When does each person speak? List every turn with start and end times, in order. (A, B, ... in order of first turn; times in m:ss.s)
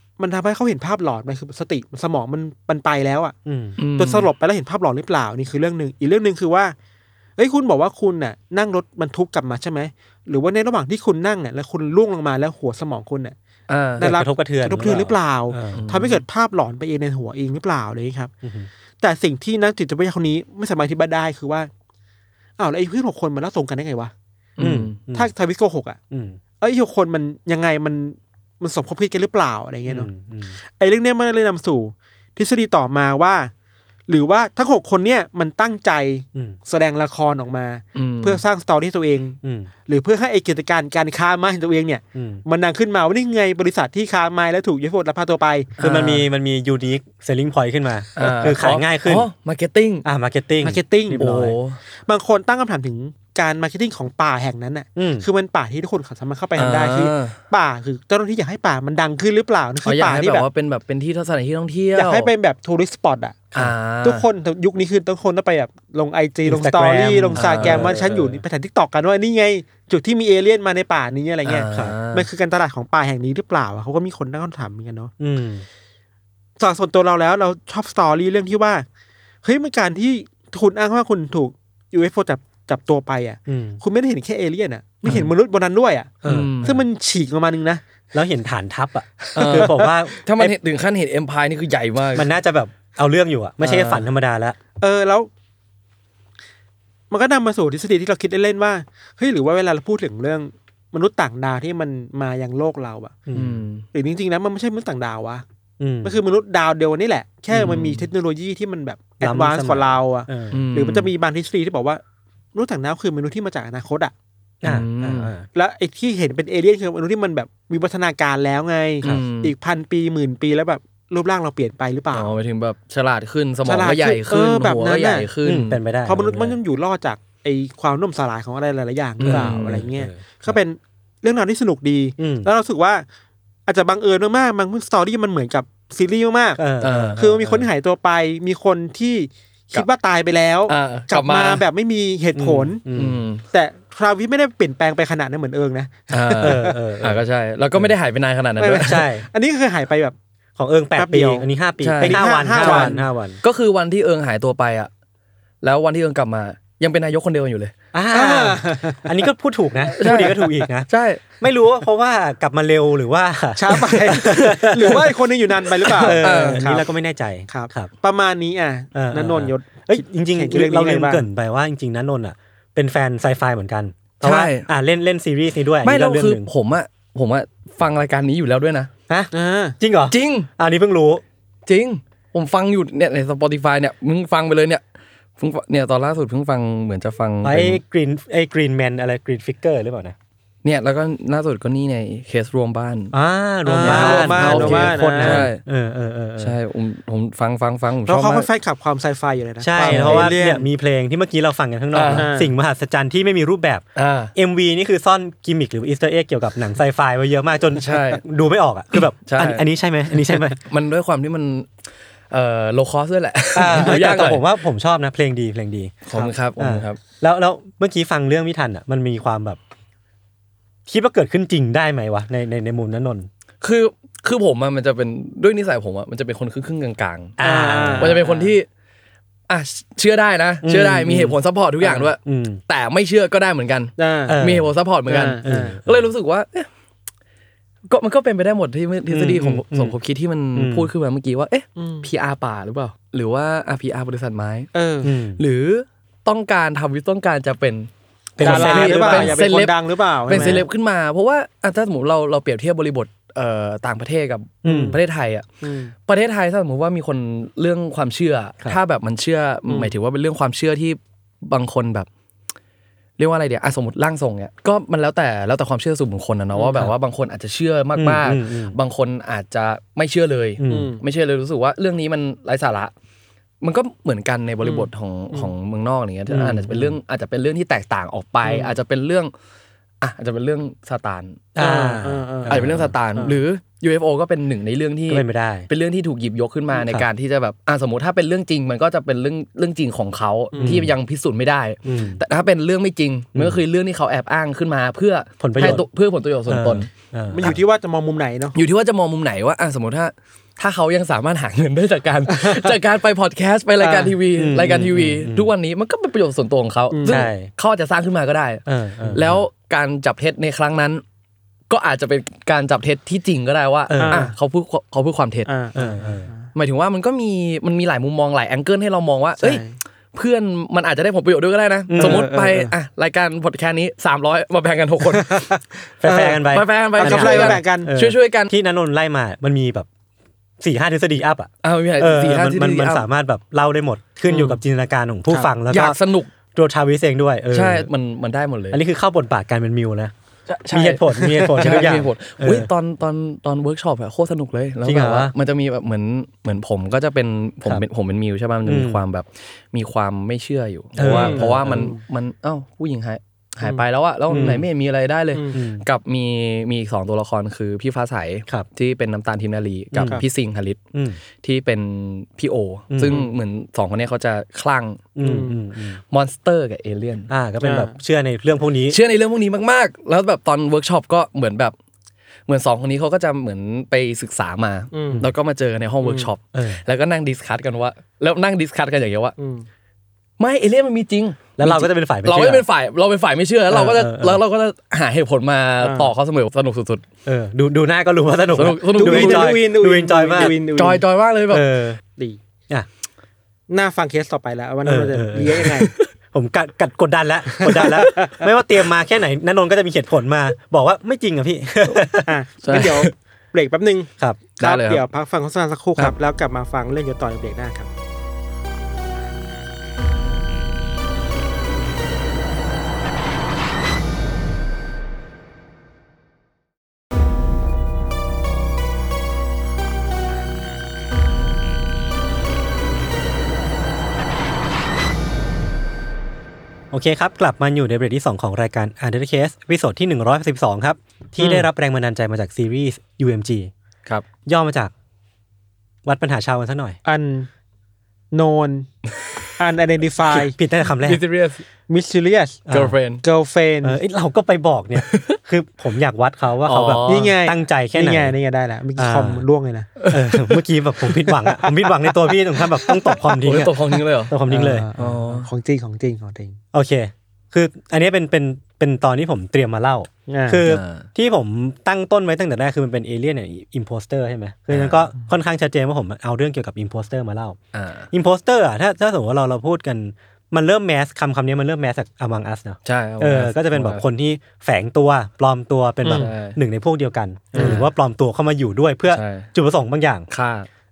0:00.2-0:03.3 A
0:03.4-0:03.8 B
0:03.8-0:04.3 C
0:04.0-0:06.7 A
0:07.4-0:13.3 A
0:13.7-0:14.1 C
0:14.0-0:18.3 A
0:14.0-0:15.9 B
0:15.7-0:16.2 C
0:18.4-0:18.7 B
0:19.0-0:21.7 A
0:22.6-0:24.1 A
0:24.6-0:25.0 C
0:24.6-0:25.3 B
0:25.1-0:26.0 A
0:26.1-0:26.4 B
0:26.6-0:30.1 A
0:29.9-0:30.6 B
0:30.8-0:33.5 A
0:34.1-0:45.7 A
0:37.9-0:38.4 C
0:39.4-0:39.7 B
0:42.1-0:42.4 B
0:45.8-0:46.2 C
0:45.8-0:49.3 B
0:48.2-0:50.0 C
0:50.0-0:51.6 B
0:50.6-0:51.2 A
0:51.1-0:51.8 C
0:52.0-1:00.4 A
0:55.0-0:55.3 B
0:56.6-0:57.4 C
0:59.8-1:02.3 C
1:01.9-1:03.5 A
1:03.5-1:04.2 C
1:04.0-1:15.1 A
1:06.4-1:08.4 B
1:07.3-1:07.9 C
1:11.4-1:12.2 C
1:15.2-1:15.6 B
1:16.6-1:18.8 A
1:19.4-1:27.8 A
1:23.5-1:23.8 B
1:26.2-1:26.8 B
1:26.2-1:26.7 C
1:28.1-1:30.5 B
1:29.3-1:29.9 A
1:29.4-1:32.3 C
1:32.1-1:34.6 B
1:33.7-1:33.9 C
1:34.8-1:35.3 A
1:37.1-1:43.1 A
1:43.3-1:43.6 B
1:43.3-1:43.8 C
1:43.9-1:45.4 A
1:45.8-1:46.2 B
1:46.0-1:52.0 A
1:47.5-1:48.1 C
1:49.2-1:50.6 B
1:50.5-1:51.1 C
1:52.5-1:54.1 A
1:54.6-1:55.5 B
1:54.6-1:55.3 C
1:55.5-2:02.3 A
1:59.0-1:59.5 C
2:02.1-2:05.8 C
2:03.6-2:05.3 A
2:05.4-2:06.6 B
2:06.0-2:13.0 A
2:09.2-2:09.9 C
2:09.2-2:10.6 B
2:12.2-2:12.5 B
2:13.6-2:22.8 A
2:16.6-2:17.7 B
2:16.8-2:17.2 C
2:20.7-2:21.6 C
2:22.3-2:23.2 B
2:22.9-2:23.4 C
2:23.5-2:26.8 A
2:26.1-2:29.1 C
2:26.4-2:27.2 B
2:28.6-2:30.1 A
2:28.7-2:29.3 B
2:30.6-2:33.4 B
2:31.0-2:31.4 A
2:31.8-2:34.9 C
2:32.0-2:33.0 A
2:35.6-2:37.7 C
2:37.9-2:40.9 B
2:38.1-2:39.1 A
2:40.0-2:41.2 C
2:41.4-2:45.1 B
2:43.6-2:46.8 A
2:45.8-2:47.9 B
2:46.2-2:46.6 C
2:47.5-2:51.2 A
2:48.9-2:56.5 B
2:54.2-2:54.7 C
2:55.8-2:58.9 C
2:59.1-3:01.2 B
2:59.3-2:59.8 A
3:00.1-3:00.5 C
3:01.7-3:04.8 C
3:05.4-3:07.8 C
3:07.4-3:10.2 B
3:10.6-3:13.1 C
3:13.1-3:16.5 B
3:13.6-3:15.5 A
3:13.8-3:15.6 C
3:16.4-3:18.5 C
3:18.0-3:20.7 A
3:19.6-3:30.6 B
3:19.8-3:20.3 C
3:21.9-3:22.3 C
3:22.1-3:22.5 A
3:24.0-3:24.3 C
3:27.8-3:28.2 C
3:29.0-3:31.7 C
3:32.3-3:34.4 C
3:33.5-3:39.6 B
3:36.0-3:37.0 C
3:40.9-3:43.3 B
3:43.6-3:47.4 C
3:47.4-3:48.2 B
3:47.4-3:48.5 A
3:48.0-3:48.7 C
3:49.5-3:56.7 C
3:50.6-3:51.4 B
3:51.8-3:52.1 A
3:52.0-3:52.6 B
3:54.0-3:54.4 A
3:54.3-3:54.7 B
3:55.1-3:55.8 A
3:55.4-3:56.1 B
3:57.9-4:04.7 C
3:59.1-3:59.9 B
4:00.5-4:00.9 B
4:01.8-4:02.1 A
4:04.7-4:05.1 A
4:05.0-4:05.4 B
4:05.4-4:15.4 C
4:08.4-4:09.4 B
4:08.4-4:10.7 A
4:14.6-4:15.0 B
4:14.6-4:15.0 A
4:15.6-4:15.9 A
4:16.0-4:22.1 C
4:19.7-4:19.9 A
4:23.2-4:32.9 C
4:28.0-4:28.8 B
4:30.6-4:30.9 B
4:30.6-4:31.0 A
4:33.6-4:39.3 C
4:34.6-4:35.5 A
4:36.3-4:37.0 B
4:38.4-4:38.7 A
4:40.0-4:41.6 C
4:41.6-4:42.9 B
4:41.6-4:43.4 A
4:42.5-4:56.9 C
4:45.1-4:45.7 B
4:46.7-4:47.1 B
4:50.5-4:50.8 A
4:50.6-4:50.9 B
4:51.8-4:52.2 B
4:55.4-4:55.8 B
4:56.5-4:57.6 B
4:57.3-4:58.6 A
4:58.5-5:11.0 C
5:03.8-5:04.1 A
5:04.3-5:05.5 B
5:06.9-5:07.3 A
5:07.1-5:07.5 B
5:08.6-5:09.4 B
5:11.7-5:15.5 C
5:13.9-5:14.3 B
5:14.0-5:14.3 A
5:15.4-5:16.5 A
5:15.7-5:16.3 B
5:16.5-5:25.5 C
5:19.4-5:19.7 A
5:21.9-5:22.3 B
5:22.0-5:22.7 A
5:25.2-5:26.4 A
5:26.0-5:29.9 B
5:26.5-5:28.5 C
5:27.0-5:27.9 A
5:30.6-5:36.0 B
5:31.6-5:33.0 C
5:35.7-5:36.3 C
5:36.5-5:37.9 B
5:37.5-5:38.8 C
5:38.7-5:40.1 B
5:40.5-6:00.8 C
5:40.7-5:42.7 B
5:41.2-5:41.7 A
5:44.8-5:45.3 B
5:48.6-5:49.0 B
5:51.0-5:51.9 B
5:51.0-5:52.0 A
5:54.3-5:54.7 B
5:55.5-5:55.8 B
5:59.9-6:00.2 B
6:00.9-6:01.2 B
6:01.4-6:05.2 C
6:02.9-6:03.2 B
6:05.2-6:06.0 B
6:05.2-6:05.6 A
6:06.1-6:07.3 C
6:07.3-6:09.0 B
6:07.6-6:07.9 A
6:08.9-6:11.7 C
6:12.5-6:19.3 C
6:14.9-6:15.3 A
6:16.0-6:16.3 A
6:16.5-6:16.8 B
6:19.4-6:19.6 A
6:20.4-6:27.0 C
6:21.6-6:22.6 B
6:23.7-6:24.4 B
6:25.8-6:26.1 A
6:27.2-6:30.5 B
6:28.5-6:29.6 C
6:29.0-6:31.0 A
6:30.4-6:31.7 C
6:31.5-6:32.0 B
6:33.7-6:35.9 A
6:34.8-6:35.7 B
6:36.3-6:42.3 B
6:37.6-6:38.4 A
6:37.8-6:38.1 C
6:42.2-6:47.9 A
6:42.6-6:43.1 C
6:44.6-6:45.0 C
7:06.9-7:13.7 B
7:11.4-7:11.6 C
7:14.4-7:14.9 B
7:16.0-7:17.0 B
7:17.0-7:17.5 A
7:18.3-7:18.9 A
7:19.6-7:20.5 A
7:20.3-7:21.2 B
7:20.9-7:21.6 C
7:21.9-7:22.6 A
7:22.7-7:22.9 B
7:22.7-7:23.2 C
7:23.2-7:24.0 A
7:23.8-7:28.3 B
7:25.0-7:25.4 C
7:26.6-7:27.3 C
7:27.1-7:29.9 A
7:29.0-7:29.4 B
7:30.0-7:30.6 C
7:30.1-7:34.9 B
7:32.9-7:34.4 C
7:34.5-7:36.6 A
7:35.0-7:35.5 C
7:36.7-7:47.6 B
7:40.3-7:40.6 A
7:40.6-7:41.1 C
7:44.7-7:45.0 C
7:47.7-7:48.1 C
7:48.1-8:00.3 B
7:52.8-7:54.0 C
7:56.0-7:56.3 A
7:56.1-7:56.6 C
7:57.5-7:57.8 A
7:57.5-7:57.9 C
7:59.1-7:59.5 C
8:00.3-8:00.7 C